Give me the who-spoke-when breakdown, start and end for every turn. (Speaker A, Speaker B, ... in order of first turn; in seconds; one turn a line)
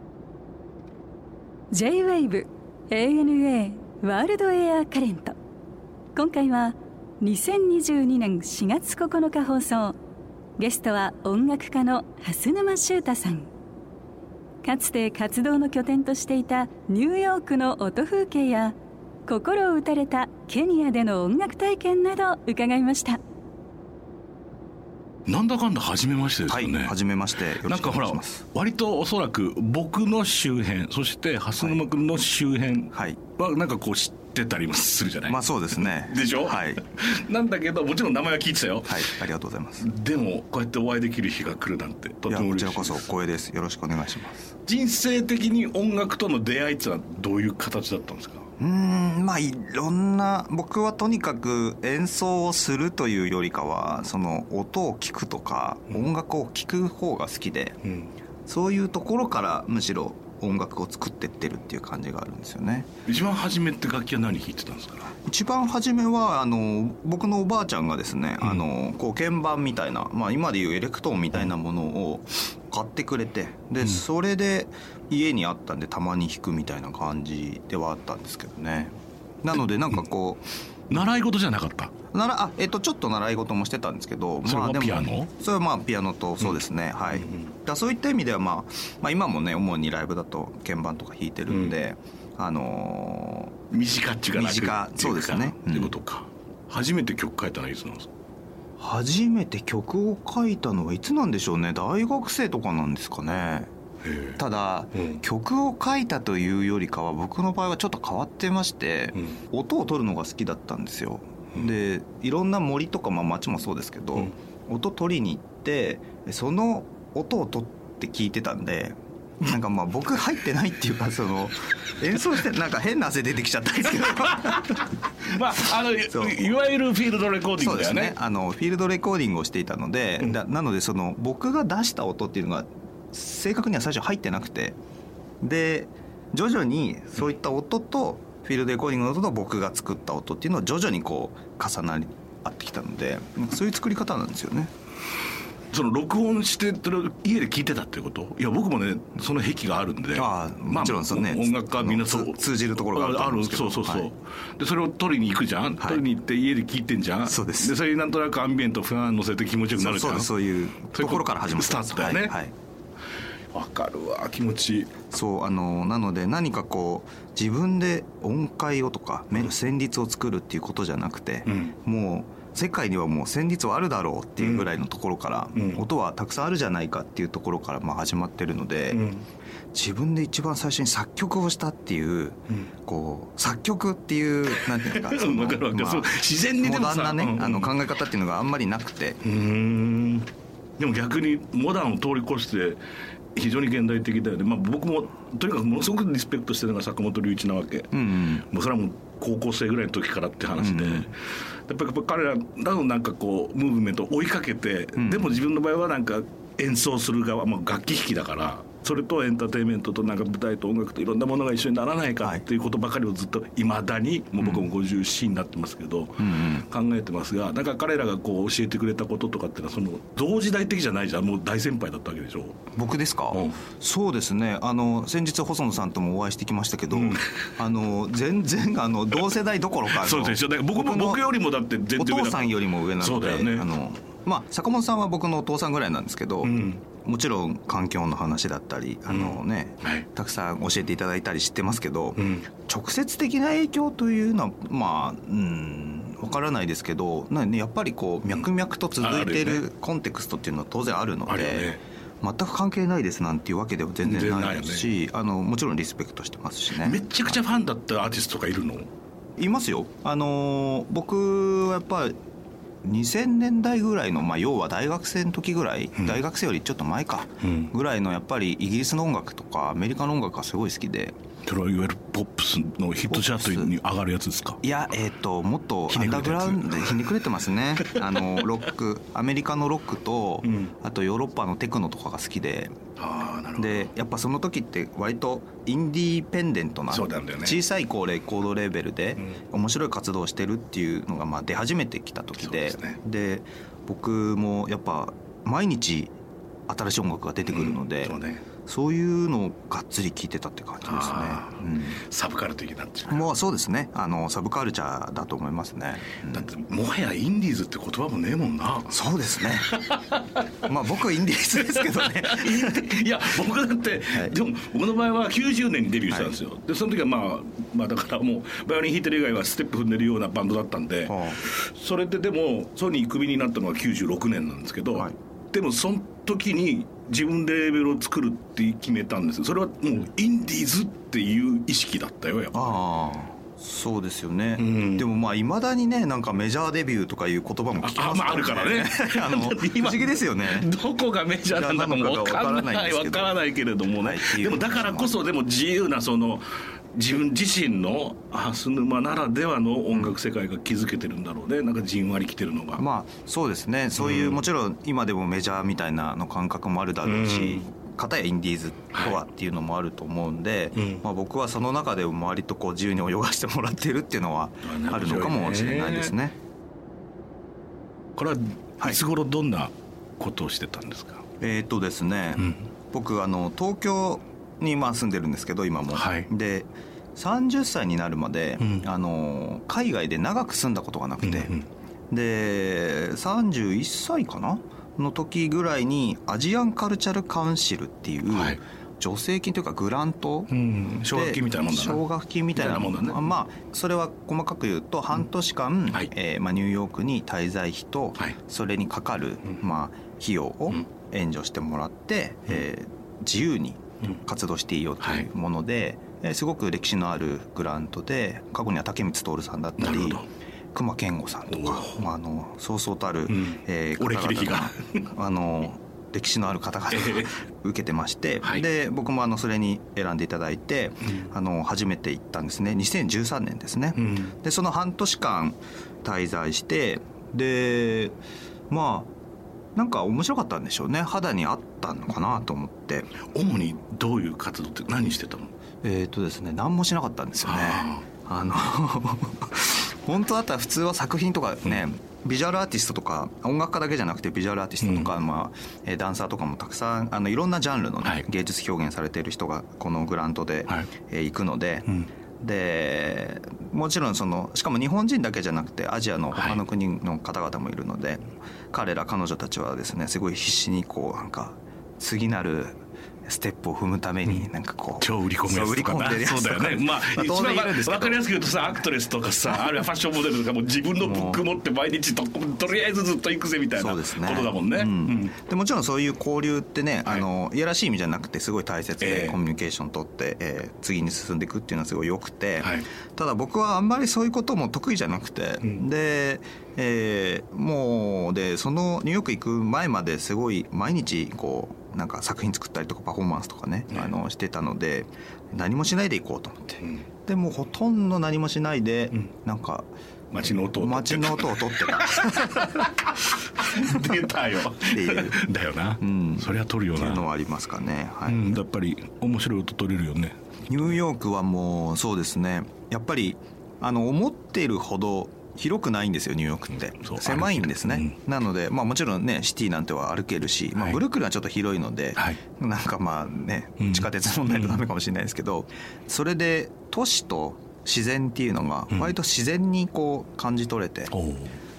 Speaker A: 1.7-5.4
Speaker A: 6.1-9.9
Speaker A: 10.6-13.5
Speaker A: 14.6-18.7
Speaker A: 19.3-23.2
Speaker B: 25.3-26.9
Speaker C: 26.5-28.4
Speaker B: 27.6-39.1
Speaker C: 32.9-33.2
Speaker C: 35.3-36.8
Speaker C: 38.9-39.9
Speaker B: 39.8-43.0
Speaker C: 42.3-44.5
Speaker B: 44.6-48.5
Speaker C: 48.6-57.8
Speaker B: 57.8-58.1
Speaker C: 58.5-62.9
Speaker B: 63.0-65.1
Speaker C: 65.2-81.0
Speaker B: 80.9-81.9
Speaker C: 82.1-93.5
Speaker B: 84.5-85.3
Speaker B: 87.1-87.5
Speaker B: 91.5-91.8
Speaker B: 93.7-98.1
Speaker C: 94.3-95.9
Speaker C: 98.8-103.7
Speaker B: 104.0-104.4
Speaker C: 104.4-124.8
Speaker B: 104.9-105.2
Speaker B: 124.4-128.1
Speaker C: 126.1-126.4
Speaker C: 127.6-134.8
Speaker C: 135.4-144.7
Speaker B: 145.7-160.3
Speaker C: 150.2-154.1
Speaker C: 157.3-157.7
Speaker C: 159.8-162.5
Speaker B: 160.9-162.4
Speaker B: 163.5-165.0
Speaker C: 165.1-179.0
Speaker B: 171.5-171.7
Speaker B: 174.4-174.7
Speaker B: 175.5-175.8
Speaker B: 178.9-179.2
Speaker C: 179.7-189.2
Speaker B: 184.6-187.7
Speaker B: 189.2-192.8
Speaker B: 193.3-222.7
Speaker C: 197.9-198.4
Speaker C: 200.6-201.1
Speaker C: 205.0-205.3
Speaker C: 214.4-214.7
Speaker C: 216.2-216.7
Speaker C: 222.7-231.2
Speaker B: 223.3-223.6
Speaker B: 226.9-227.4
Speaker B: 229.9-233.7
Speaker C: 232.0-257.0
Speaker B: 236.4-236.8
Speaker B: 239.1-240.1
Speaker B: 242.2-242.5
Speaker B: 249.0-249.6
Speaker B: 251.3-251.8
Speaker B: 254.0-254.9
Speaker B: 256.7-258.9
Speaker C: 259.4-262.2
Speaker C: 262.8-271.2
Speaker B: 267.4-267.7
Speaker B: 271.4-274.6
Speaker C: 273.1-273.7
Speaker C: 274.6-282.8
Speaker B: 275.9-277.1
Speaker B: 277.9-278.4
Speaker B: 280.4-280.7
Speaker B: 283.0-283.9
Speaker C: 283.6-296.1
Speaker B: 286.9-287.6
Speaker B: 292.4-293.0
Speaker C: 296.7-302.0
Speaker B: 297.5-298.4
Speaker B: 300.8-303.3
Speaker C: 303.1-306.5
Speaker B: 306.3-308.9
Speaker C: 308.9-309.7
Speaker B: 309.4-310.4
Speaker C: 310.6-312.9
Speaker B: 311.8-332.8
Speaker C: 321.1-321.4
Speaker C: 332.5-340.7
Speaker B: 334.6-335.1
Speaker B: 337.8-352.8
Speaker C: 341.5-343.3
Speaker C: 344.0-345.1
Speaker C: 352.8-366.3
Speaker B: 353.9-354.4
Speaker B: 357.0-357.6
Speaker B: 358.9-359.2
Speaker B: 360.7-361.0
Speaker B: 364.6-366.1
Speaker B: 368.2-371.2
Speaker C: 371.4-381.5
Speaker B: 375.9-376.3
Speaker B: 378.6-378.9
Speaker B: 381.2-381.6
Speaker C: 382.1-390.5
Speaker B: 388.3-388.6
Speaker B: 390.5-392.0
Speaker C: 391.1-410.2
Speaker B: 392.5-393.3
Speaker B: 405.0-405.3
Speaker B: 409.8-410.2
Speaker C: 410.7-428.2
Speaker B: 411.5-412.0
Speaker B: 413.3-415.0
Speaker B: 416.9-417.3
Speaker B: 424.0-424.3
Speaker C: 428.7-429.1
Speaker C: 429.7-433.1
Speaker B: 433.3-435.5
Speaker C: 435.8-468.2
Speaker B: 437.4-438.0
Speaker B: 444.8-445.1
Speaker B: 456.3-456.6
Speaker B: 465.0-475.3
Speaker C: 471.0-471.4
Speaker C: 473.8-499.9
Speaker B: 479.0-479.4
Speaker B: 500.3-507.2
Speaker C: 500.7-502.9
Speaker C: 504.9-505.4
Speaker C: 506.0-508.6
Speaker B: 508.3-510.4
Speaker C: 510.7-531.1
Speaker B: 517.0-518.2
Speaker B: 523.8-524.8
Speaker B: 531.1-531.6